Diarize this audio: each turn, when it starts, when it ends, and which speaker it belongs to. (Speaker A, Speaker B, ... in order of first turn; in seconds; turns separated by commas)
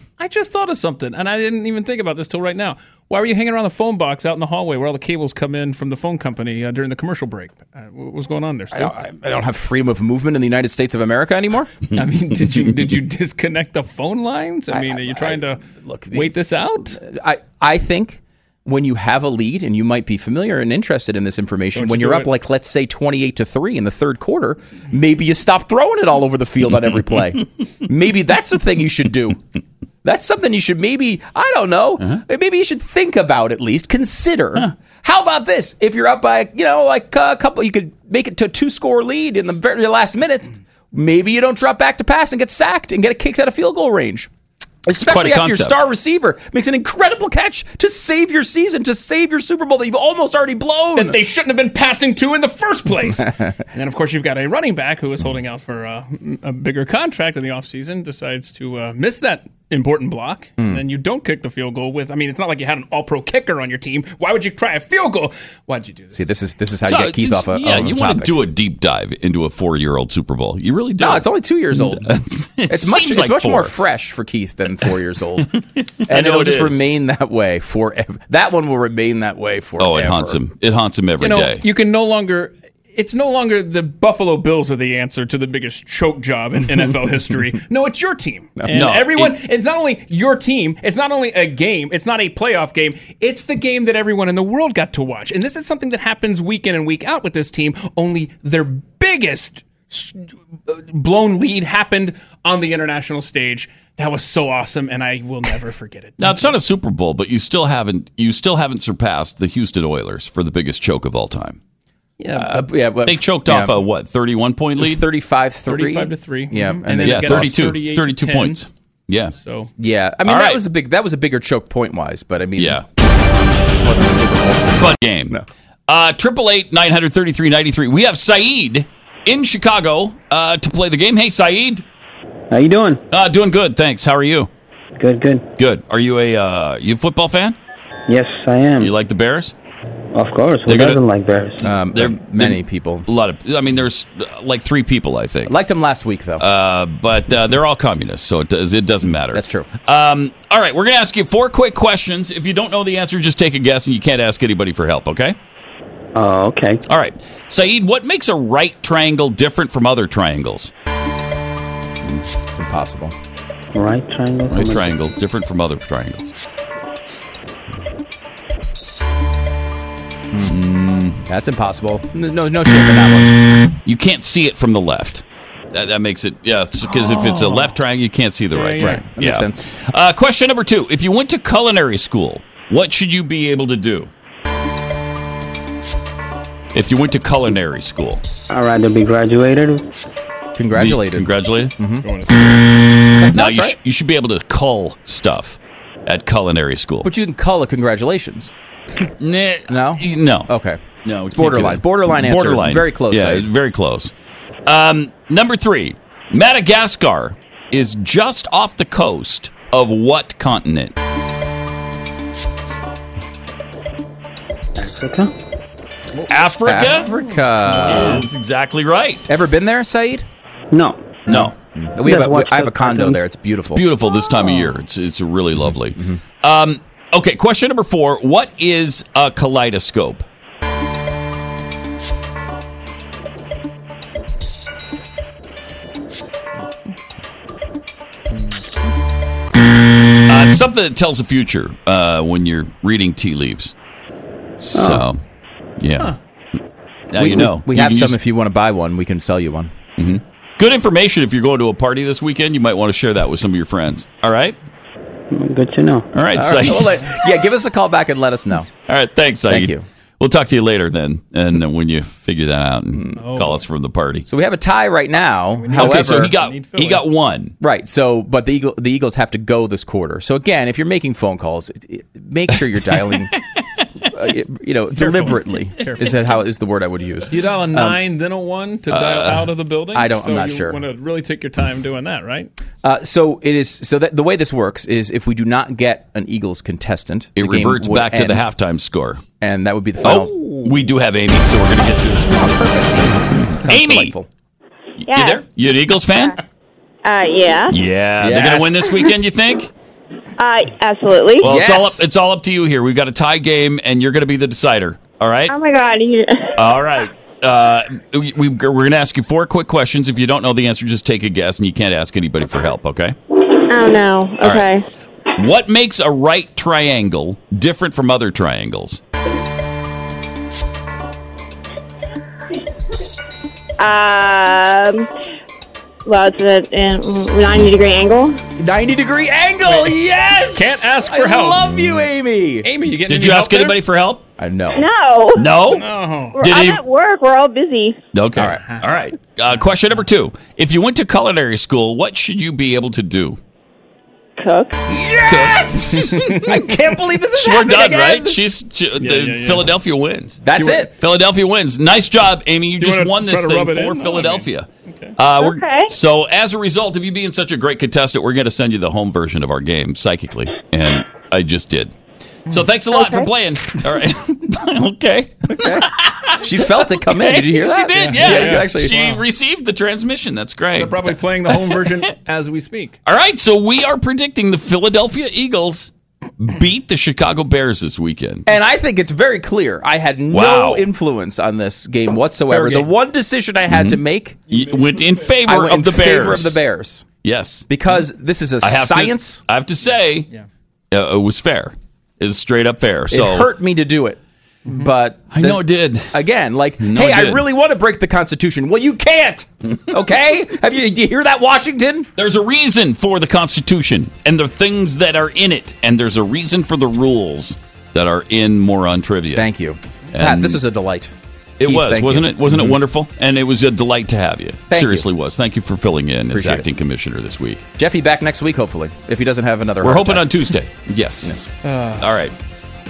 Speaker A: 0.2-8.9, Speaker B: 8.7-11.7, Speaker A: 11.9-17.0, Speaker B: 14.7-16.3, Speaker B: 16.9-29.4, Speaker A: 21.7-22.3, Speaker B: 30.0-44.3, Speaker B: 44.8-51.2, Speaker C: 44.9-45.8, Speaker A: 50.9-66.3, Speaker B: 66.1-68.3, Speaker C: 66.8-73.7, Speaker B: 71.0-72.1, Speaker B: 72.7-75.5, Speaker C: 76.0-76.8, Speaker B: 76.0-80.4, Speaker C: 79.8-81.6, Speaker A: 81.2-106.5, Speaker C: 88.7-89.4, Speaker C: 106.2-111.6, Speaker A: 112.2-112.7, Speaker B: 112.3-113.7, Speaker C: 113.0-115.0, Speaker B: 114.8-117.6, Speaker A: 115.7-118.6, Speaker C: 117.0-119.3, Speaker A: 119.4-119.7, Speaker B: 119.8-122.8, Speaker C: 120.2-120.6, Speaker C: 122.6-122.8, Speaker B: 123.8-124.7, Speaker C: 124.8-131.8, Speaker D: 132.5-133.0, Speaker C: 133.1-134.5, Speaker D: 135.0-135.4, Speaker C: 135.6-137.6, Speaker D: 138.1-138.9, Speaker C: 138.8-139.5, Speaker D: 140.1-141.7, Speaker C: 140.7-141.0, Speaker B: 141.6-143.1, Speaker C: 141.9-145.5, Speaker B: 145.4-146.4, Speaker C: 146.4-155.3, Speaker B: 149.3-149.7, Speaker D: 156.2-156.8, Speaker C: 156.9-160.7, Speaker B: 162.5-163.1, Speaker D: 163.7-164.9, Speaker C: 164.5-166.3, Speaker C: 170.4-171.2, Speaker B: 171.3-173.4, Speaker C: 173.8-184.1, Speaker A: 178.5-179.0, Speaker B: 178.8-179.7, Speaker C: 186.7-188.2, Speaker D: 188.5-189.8, Speaker B: 190.5-192.1, Speaker C: 190.7-191.7, Speaker A: 192.0-192.6, Speaker B: 193.2-193.8, Speaker C: 193.2-197.1, Speaker B: 197.0-198.5, Speaker C: 199.2-200.5, Speaker B: 199.7-203.4, Speaker C: 201.0-204.1, Speaker C: 204.7-210.9, Speaker D: 214.8-215.3, Speaker C: 216.3-219.2, Speaker B: 216.6-218.3, Speaker B: 219.3-220.2, Speaker D: 220.7-221.2, Speaker B: 221.3-223.8, Speaker C: 221.3-221.5, Speaker D: 222.0-223.2, Speaker C: 223.7-230.2, Speaker B: 225.6-226.2, Speaker C: 240.3-243.7, Speaker C: 244.6-245.2, Speaker C: 245.8-246.1, Speaker C: 247.1-248.2, Speaker B: 247.1-249.7, Speaker C: 250.0-254.6, Speaker D: 255.3-256.1, Speaker C: 256.1-257.4, Speaker B: 256.3-258.7, Speaker C: 258.9-264.3, Speaker B: 259.5-259.8, Speaker B: 262.9-263.2, Speaker A: 263.2-263.6, Speaker B: 264.2-266.3, Speaker A: 265.5-267.0, Speaker C: 265.7-267.5, Speaker B: 267.6-273.3, Speaker B: 274.1-278.0, Speaker A: 275.0-276.2, Speaker A: 277.3-282.5, Speaker C: 278.9-279.5, Speaker B: 279.9-280.8, Speaker B: 282.8-288.4, Speaker C: 287.4-289.2, Speaker B: 289.4-290.6, Speaker C: 290.0-292.6, Speaker B: 292.2-294.3, Speaker C: 293.3-294.1, Speaker E: 295.1-295.4, Speaker C: 295.1-296.4, Speaker E: 297.0-297.7, Speaker C: 297.7-299.7, Speaker B: 298.2-298.9, Speaker E: 300.4-301.5, Speaker C: 301.4-305.5, Speaker B: 301.4-302.0, Speaker E: 305.5-306.5, Speaker C: 306.6-313.1, Speaker E: 313.7-314.8, Speaker C: 314.4-314.7, Speaker C: 315.3-319.0, Speaker E: 323.8-325.1, Speaker E: 326.0-328.4, Speaker B: 328.6-332.7, Speaker A: 329.6-329.9, Speaker A: 330.5-331.6, Speaker A: 332.6-333.8, Speaker C: 333.0-334.2, Speaker B: 334.4-334.8, Speaker E: 334.7-335.5, Speaker C: 335.3-335.8, Speaker A: 335.7-336.4, Speaker E: 336.4-338.0, Speaker C: 336.4-336.8, Speaker C: 338.1-343.4, Speaker B: 338.3-338.6, Speaker E: 344.4-344.8, Speaker B: 344.9-348.4, Speaker C: 345.3-346.1, Speaker A: 346.0-346.6, Speaker C: 347.3-361.9, Speaker A: 349.0-349.7, Speaker B: 350.4-350.9, Speaker A: 350.6-350.8, Speaker A: 352.8-355.2, Speaker E: 355.4-355.9, Speaker C: 362.5-372.0, Speaker E: 362.9-363.3, Speaker B: 365.5-365.9, Speaker B: 366.4-368.9, Speaker A: 368.0-369.2, Speaker A: 370.8-373.0, Speaker C: 373.0-378.5, Speaker B: 378.4-384.4, Speaker C: 380.3-380.9, Speaker A: 382.5-382.9, Speaker C: 383.7-386.6, Speaker A: 384.5-385.4, Speaker B: 385.4-387.1, Speaker C: 387.2-387.8, Speaker B: 387.7-389.4, Speaker C: 388.6-390.3, Speaker C: 390.9-393.5, Speaker B: 393.1-395.6, Speaker C: 395.3-396.2, Speaker B: 396.1-402.1, Speaker C: 396.8-397.4, Speaker C: 402.1-409.5, Speaker B: 409.3-412.8, Speaker C: 410.1-410.6, Speaker C: 411.6-417.6, Speaker B: 414.7-415.1, Speaker B: 416.3-416.6, Speaker B: 417.8-420.5, Speaker C: 419.8-421.3, Speaker B: 421.2-421.5, Speaker A: 421.6-422.1, Speaker C: 422.0-422.3